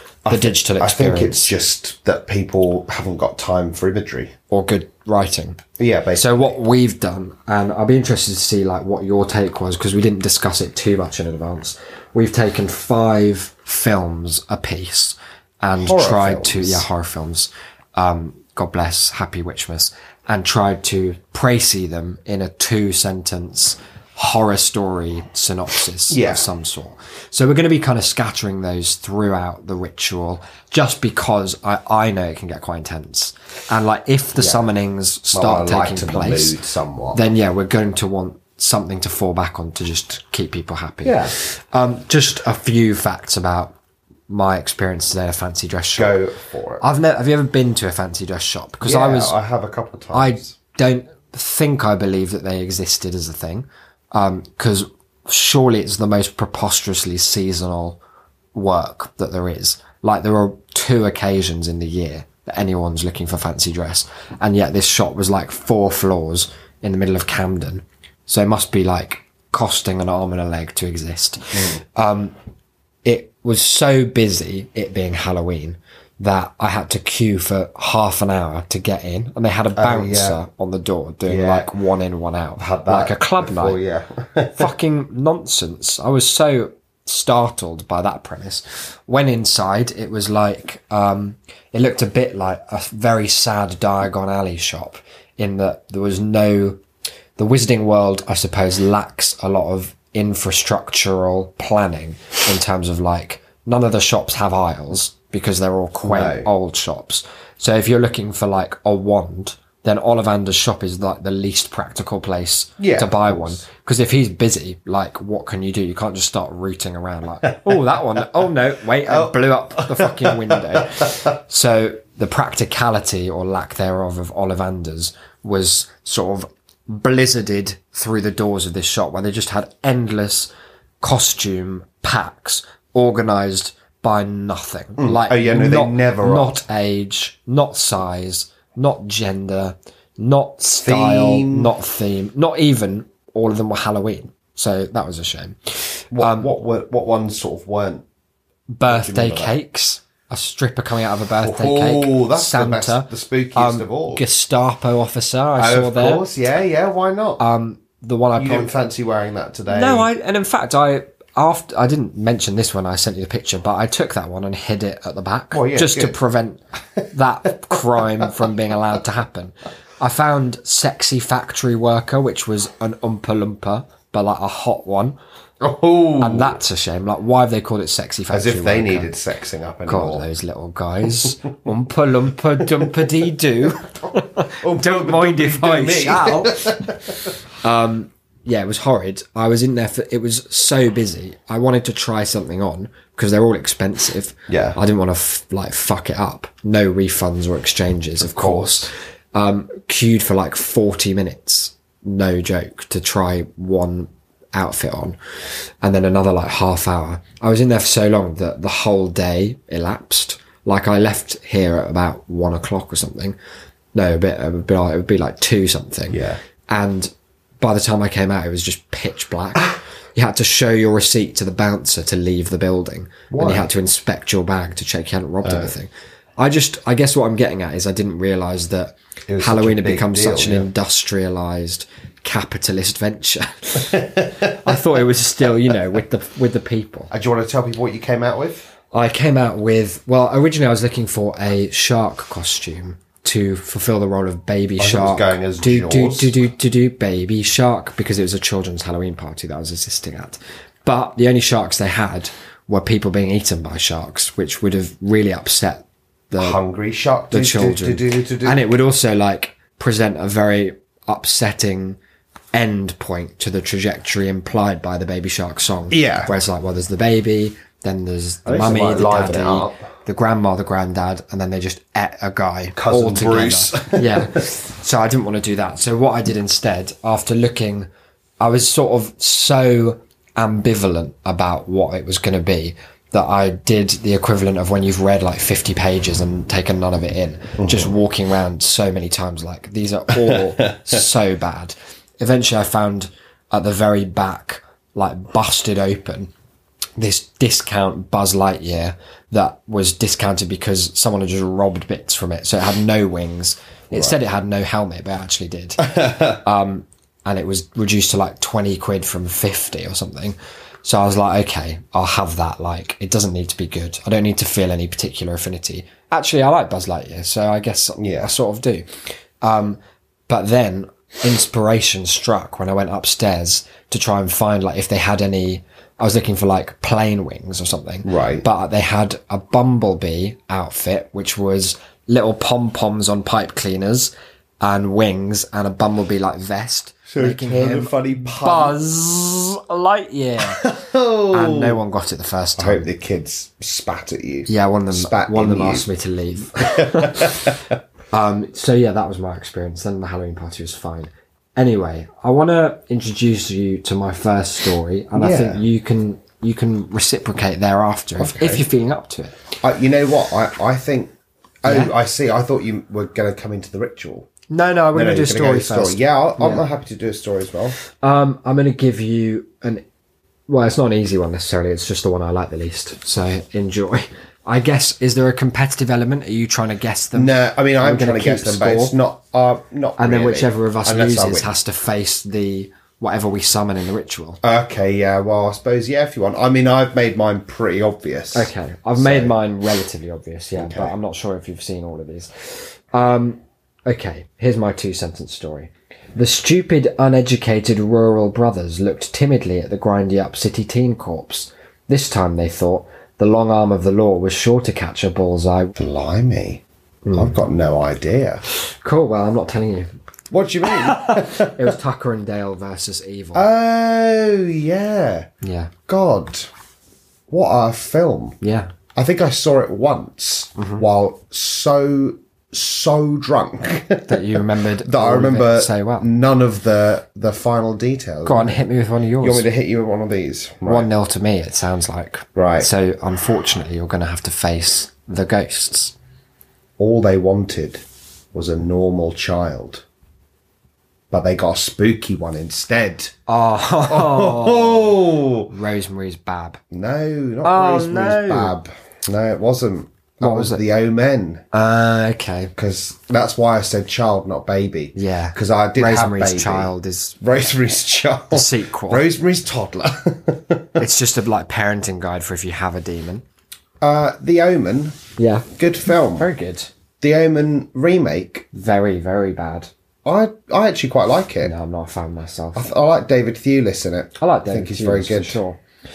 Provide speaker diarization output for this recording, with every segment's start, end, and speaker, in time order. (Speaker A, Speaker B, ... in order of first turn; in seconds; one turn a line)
Speaker A: 0.2-4.3
Speaker B: 0.3-1.5
Speaker B: 4.5-5.6
Speaker A: 5.8-6.5
Speaker B: 6.2-36.5
Speaker A: 15.8-16.9
Speaker A: 26.1-26.5
Speaker A: 34.4-34.6
Speaker A: 35.3-37.2
Speaker B: 37.1-43.7
Speaker A: 41.0-41.3
Speaker B: 44.3-46.2
Speaker A: 46.0-46.8
Speaker B: 46.8-49.3
Speaker A: 48.8-50.5
Speaker B: 50.1-58.0
Speaker B: 58.5-72.3
Speaker A: 71.5-71.8
Speaker B: 73.0-83.8
Speaker A: 79.7-80.4
Speaker A: 81.3-81.7
Speaker A: 82.6-84.7
Speaker B: 84.5-96.8
Speaker B: 97.4-130.5
Speaker A: 106.0-106.5
Speaker A: 112.8-113.6
Speaker A: 119.0-121.2
Speaker B: 131.0-146.5
Speaker A: 135.0-136.6
Speaker A: 140.8-141.7
Speaker A: 146.1-148.0
Speaker B: 148.7-156.3
Speaker A: 148.8-149.5
Speaker A: 151.4-154.2
Speaker A: 155.6-157.4
Speaker B: 157.4-158.7
Speaker A: 158.4-160.1
Speaker B: 159.7-175.2
Speaker A: 165.5-166.2
Speaker A: 167.7-168.3
Speaker A: 175.6-176.6
Speaker B: 176.2-179.1
Speaker A: 178.3-180.3
Speaker B: 179.9-186.8
Speaker A: 184.6-187.3
Speaker B: 187.6-205.2
Speaker A: 194.5-194.8
Speaker A: 198.2-198.9
Speaker B: 205.8-213.3
Speaker B: 213.9-237.1
Speaker A: 216.1-216.4
Speaker A: 223.3-223.7
Speaker A: 225.4-225.7
Speaker A: 229.3-230.7
Speaker A: 234.2-234.5
Speaker A: 237.1-238.7
Speaker B: 238.9-256.6
Speaker A: 244.8-246.3
Speaker A: 256.4-258.6
Speaker B: 257.3-262.0
Speaker B: 262.5-277.9
Speaker A: 265.9-266.3
Speaker A: 268.4-269.8
Speaker A: 272.8-274.4
Speaker B: 278.4-296.3
Speaker A: 287.6-287.9
Speaker A: 290.1-291.0
Speaker B: 297.0-318.9
Speaker A: 305.8-306.4
Speaker A: 318.0-318.3
Speaker B: 319.4-340.6
Speaker A: 328.0-328.4
Speaker A: 337.1-338.8
Speaker A: 340.4-341.8
Speaker B: 341.3-342.9
Speaker A: 342.6-345.9
Speaker B: 344.5-347.5
Speaker A: 346.6-347.7
Speaker B: 348.1-359.4
Speaker A: 355.1-355.6
Speaker A: 358.2-358.6
Speaker A: 359.6-361.1
Speaker A: 361.6-364.3
Speaker B: 361.6-361.9
Speaker B: 364.5-366.6
Speaker A: 364.9-367.8
Speaker B: 368.0-369.8
Speaker B: 370.5-378.9
Speaker A: 377.1-381.5
Speaker B: 380.0-384.4
Speaker A: 384.4-389.3
Speaker B: 388.3-405.7
Speaker A: 390.6-390.9
Speaker A: 405.8-406.6
Speaker B: 407.0-407.4
Speaker A: 407.1-408.4
Speaker B: 408.8-409.9
Speaker A: 410.3-411.8
Speaker B: 410.6-413.4
Speaker A: 413.3-415.3
Speaker B: 415.4-415.7
Speaker A: 415.9-416.5
Speaker A: 417.3-418.4
Speaker B: 418.4-418.7
Speaker A: 418.9-428.6
Speaker B: 420.6-420.8
Speaker B: 424.1-426.1
Speaker B: 428.2-429.4
Speaker A: 429.2-430.9
Speaker B: 430.6-435.9
Speaker A: 432.4-432.7
Speaker A: 436.8-439.8
Speaker A: 441.1-443.1
Speaker B: 443.3-446.6
Speaker A: 443.9-445.5
Speaker A: 446.7-451.4
Speaker B: 447.4-448.5
Speaker B: 450.2-450.6
Speaker B: 451.5-452.5
Speaker A: 452.6-460.8
Speaker B: 454.9-457.1
Speaker B: 458.3-459.1
Speaker B: 460.8-463.2
Speaker A: 463.8-465.0
Speaker B: 465.2-465.5
Speaker A: 465.5-466.3
Speaker B: 466.2-466.7
Speaker A: 467.0-468.5
Speaker B: 468.5-469.7
Speaker A: 470.0-471.5
Speaker B: 471.4-472.7
Speaker A: 472.5-475.4
Speaker B: 474.2-475.6